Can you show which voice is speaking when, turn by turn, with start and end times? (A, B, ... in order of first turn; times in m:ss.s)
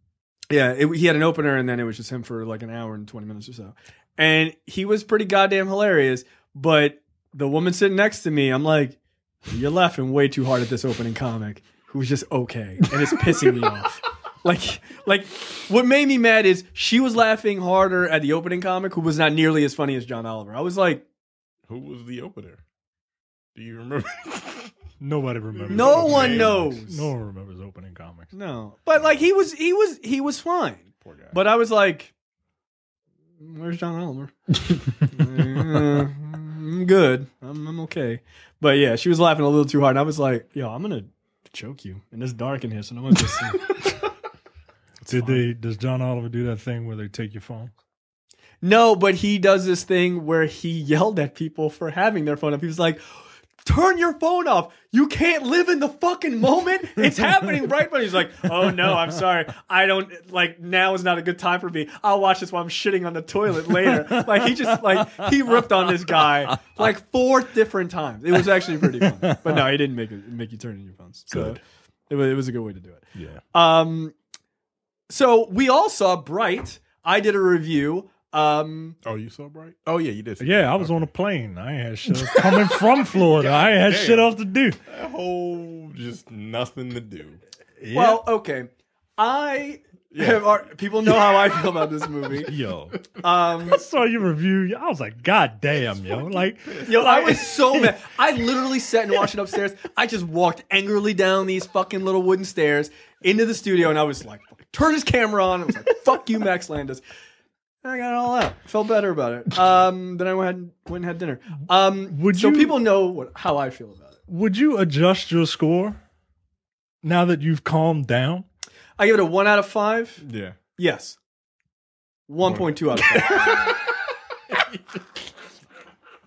0:00.5-0:21.0 A
0:21.7-0:22.6 B
0:23.6-0:24.7 B
0:25.0-0:28.3 C
0:25.6-0:26.6 B
0:25.7-0:27.1 A
0:28.3-0:32.1 A
0:31.0-0:31.4 B
0:33.4-0:34.4 A
0:34.9-0:44.0 A
0:45.0-0:47.7 C
0:45.1-0:45.4 A
0:48.6-0:53.0 A
0:53.6-1:14.2 A
0:57.2-0:57.4 C
1:03.7-1:06.8 C
1:08.4-1:09.7 C
1:11.3-1:11.6 C
1:13.2-1:13.4 C
1:15.1-1:19.0 A
1:19.0-1:21.0 B
1:20.4-1:24.8 C
1:22.3-1:24.4 B
1:24.9-1:27.4 B
1:27.8-1:28.3 C
1:27.9-1:32.5 A
1:30.1-1:30.5 B
1:32.4-1:33.1 C
1:33.2-1:33.8 A
1:33.6-1:37.9 C
1:36.8-1:37.1 B
1:36.8-1:47.0 A
1:47.8-1:54.2 A
1:52.1-1:52.8 C
1:54.3-1:56.0 C
1:57.0-1:58.5 C
1:59.0-2:00.2 A
2:00.2-2:00.6 B
2:00.8-2:01.2 A
2:02.3-2:03.7 A
2:02.4-2:03.8 B